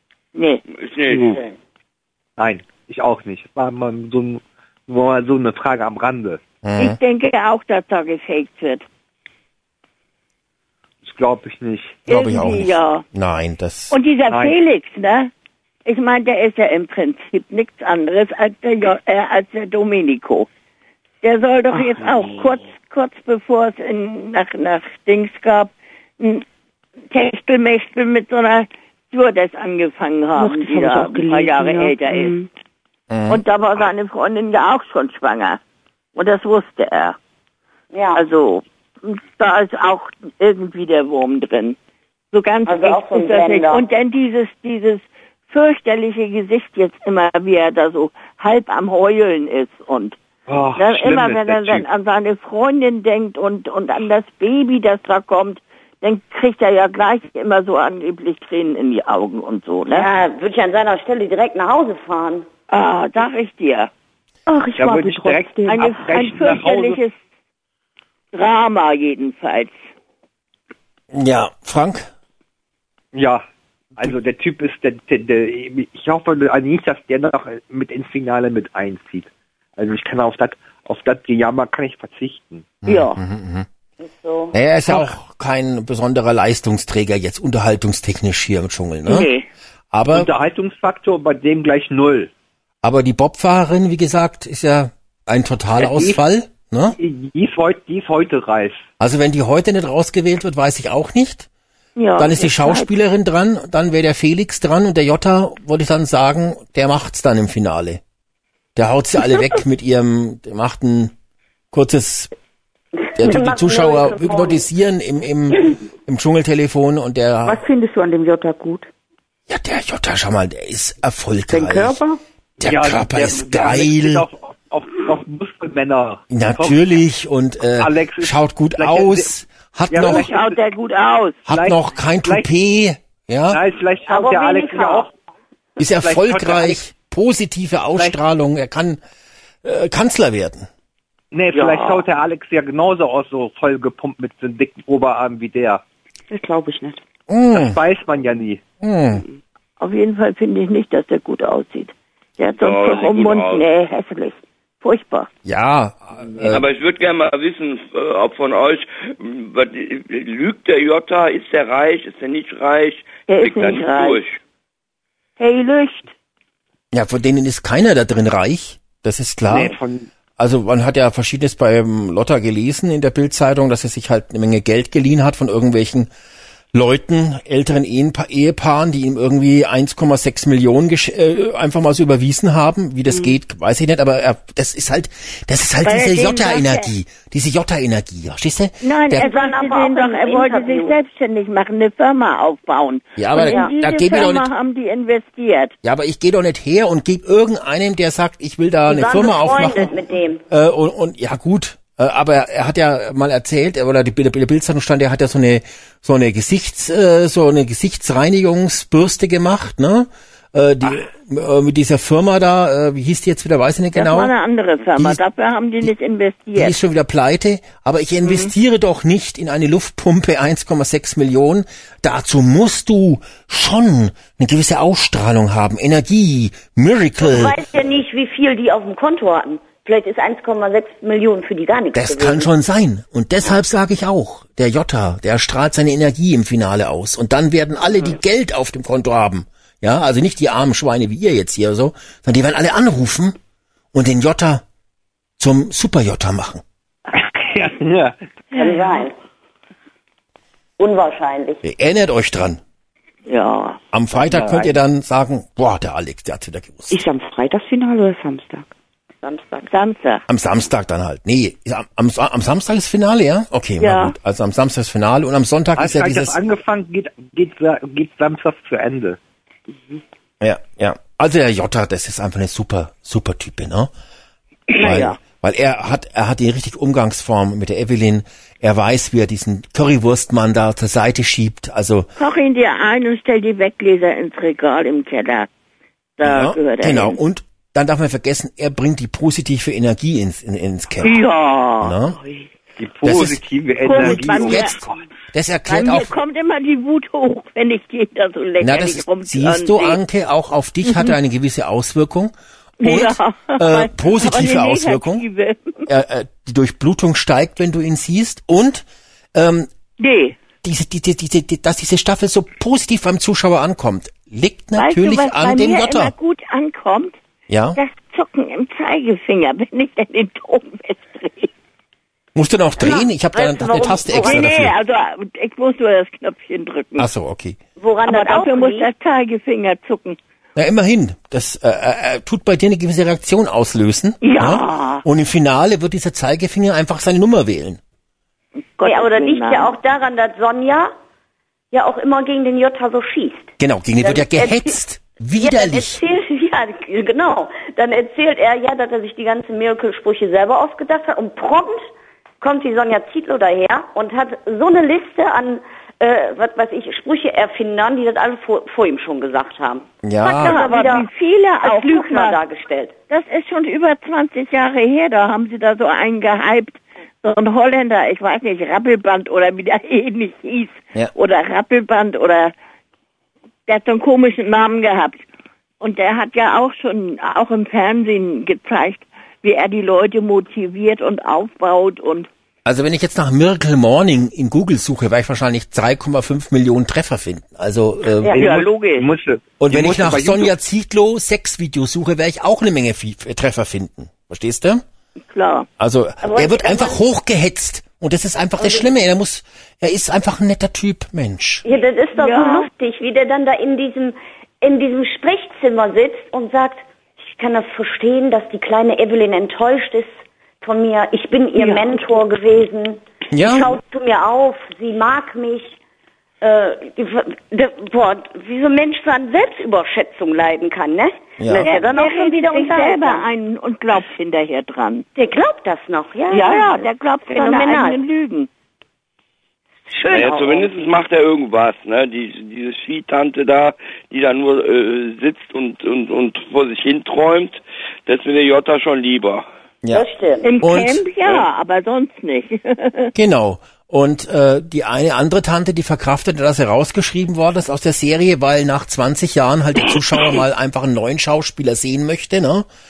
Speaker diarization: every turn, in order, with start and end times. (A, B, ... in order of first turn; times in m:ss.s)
0:00.3-0:00.6 A
0:00.8-0:01.4 B
0:01.1-0:01.4 C
0:01.1-0:01.4 D
0:02.4-0:06.4 C
0:06.6-0:07.0 E
0:06.8-0:08.8 A
0:11.0-0:12.0 C
0:12.0-0:13.0 A
0:12.1-0:13.9 E
0:13.9-0:15.3 A
0:14.3-0:14.6 C
0:15.8-0:20.5 A
0:21.2-0:26.4 A
0:21.7-0:22.6 D
0:27.1-0:32.3 A
0:30.4-0:32.5 D
0:33.1-0:33.4 E
0:33.3-0:35.6 A
0:36.1-0:37.2 A
0:37.9-0:38.2 F
0:38.1-0:41.8 A
0:42.3-0:50.2 A
0:42.6-0:43.8 F
0:50.5-0:51.8 C
0:50.8-1:00.1 A
0:59.9-1:02.5 F
1:02.7-1:03.9 A
1:04.5-1:07.1 A
1:04.6-1:05.1 D
1:04.8-1:07.0 C
1:08.3-1:09.7 A
1:11.1-1:12.1 E
1:13.1-1:13.4 C
1:14.0-1:22.7 C
1:22.8-1:23.7 E
1:22.8-1:23.2 A
1:24.0-1:24.6 F
1:24.5-1:29.3 E
1:29.0-1:29.5 A
1:29.9-1:30.3 E
1:30.1-1:32.3 C
1:32.8-1:37.0 E
1:35.8-1:36.2 C
1:37.0-1:38.8 C
1:39.0-1:41.5 E
1:42.0-1:42.9 A
1:42.2-1:48.0 E
1:48.8-1:51.1 E
1:51.7-1:52.3 E
1:53.0-1:54.6 F
1:53.2-1:57.6 E
1:57.4-1:58.9 D
1:59.5-2:02.0 E
2:01.5-2:02.2 D
2:02.6-2:04.2 E
2:02.6-2:06.8 C
2:06.3-2:10.3 E
2:07.7-2:09.3 C
2:09.9-2:10.6 C
2:10.0-2:11.4 A
2:11.5-2:13.6 E
2:11.5-2:12.5 C
2:13.5-2:15.1 C
2:14.1-2:15.1 F
2:15.8-2:19.0 E
2:16.0-2:16.8 C
2:19.6-2:20.7 E
2:21.3-2:25.8 C
2:21.5-2:22.0 A
2:26.3-2:27.0 D
2:27.3-2:27.8 E
2:27.5-2:28.6 C
2:28.8-2:29.2 E
2:29.8-2:35.3 A
2:32.5-2:33.6 B
2:35.4-2:36.7 E
2:36.4-2:44.4 B
2:43.3-2:44.2 A
2:45.4-2:46.1 A
2:46.9-2:49.7 E
2:49.5-2:50.1 C
2:50.4-2:56.1 E
2:56.7-3:09.3 E
3:03.1-3:03.3 D
3:05.8-3:06.9 A
3:08.8-3:15.7 A
3:09.1-3:11.0 F
3:13.2-3:14.5 E
3:13.4-3:13.7 F
3:15.8-3:19.9 E
3:18.8-3:20.4 F
3:20.5-3:34.3 E
3:33.9-3:36.7 A
3:36.5-3:47.6 E
3:47.2-3:52.5 F
3:51.9-4:03.3 E
4:03.9-4:04.6 E
4:05.4-4:06.6 E
4:07.1-4:08.2 C
4:08.5-4:09.1 F
4:10.8-4:11.6 F
4:11.6-4:12.6 E
4:13.3-4:13.8 A
4:13.9-4:17.0 E
4:16.9-4:18.7 D
4:19.2-4:19.7 F
4:19.7-4:20.2 A
4:20.3-4:26.4 E
4:23.8-4:24.1 A
4:25.8-4:29.2 C
4:30.4-4:33.9 E
4:34.7-4:35.2 A
4:34.8-4:42.1 E
4:42.2-4:45.5 A
4:46.2-4:47.2 A
4:46.2-4:51.2 E
4:51.0-4:52.4 A
4:51.8-4:52.2 E
4:52.8-4:55.0 C
4:53.0-4:56.1 E
4:53.8-4:54.8 A
4:55.7-5:00.0 A
4:58.6-5:05.2 E
5:00.8-5:01.1 A
5:02.8-5:05.8 A
5:05.8-5:09.7 E
5:10.0-5:10.3 A
5:10.6-5:16.1 E
5:14.8-5:17.2 A
5:17.5-5:17.8 E
5:17.7-5:21.5 A
5:22.3-5:24.7 E
5:22.8-5:24.6 F
5:23.8-5:27.1 A
5:27.0-5:27.6 E
5:27.8-5:28.9 F
5:28.0-5:30.2 A
5:30.5-5:37.8 E
5:34.2-5:35.0 A
5:38.8-5:39.7 A
5:38.8-5:40.9 F
5:41.7-5:44.8 F
5:43.6-5:46.0 E
5:45.4-6:01.1 F
6:00.0-6:00.6 E
6:00.2-6:02.4 A
6:01.6-6:02.9 F
6:03.1-6:12.5 A
6:13.7-6:15.2 A
6:15.8-6:22.3 A
6:22.6-6:28.6 E
6:28.3-6:29.1 A
6:28.3-6:30.5 C
6:29.6-6:34.8 E
6:35.3-6:35.7 A
6:35.8-6:41.6 E
6:36.2-6:37.0 F
6:38.6-6:38.8 F
6:41.6-6:55.8 F
6:42.2-6:42.7 A
6:51.5-6:51.9 A
6:53.3-6:53.8 E
6:56.4-7:03.2 F
7:01.4-7:01.7 E
7:01.6-7:05.0 A
7:05.2-7:08.0 F
7:06.3-7:08.5 A
7:09.9-7:10.8 F
7:10.1-7:19.5 B
7:19.9-7:20.5 F
7:20.4-7:23.1 A
7:20.6-7:21.0 E
7:23.1-7:32.7 E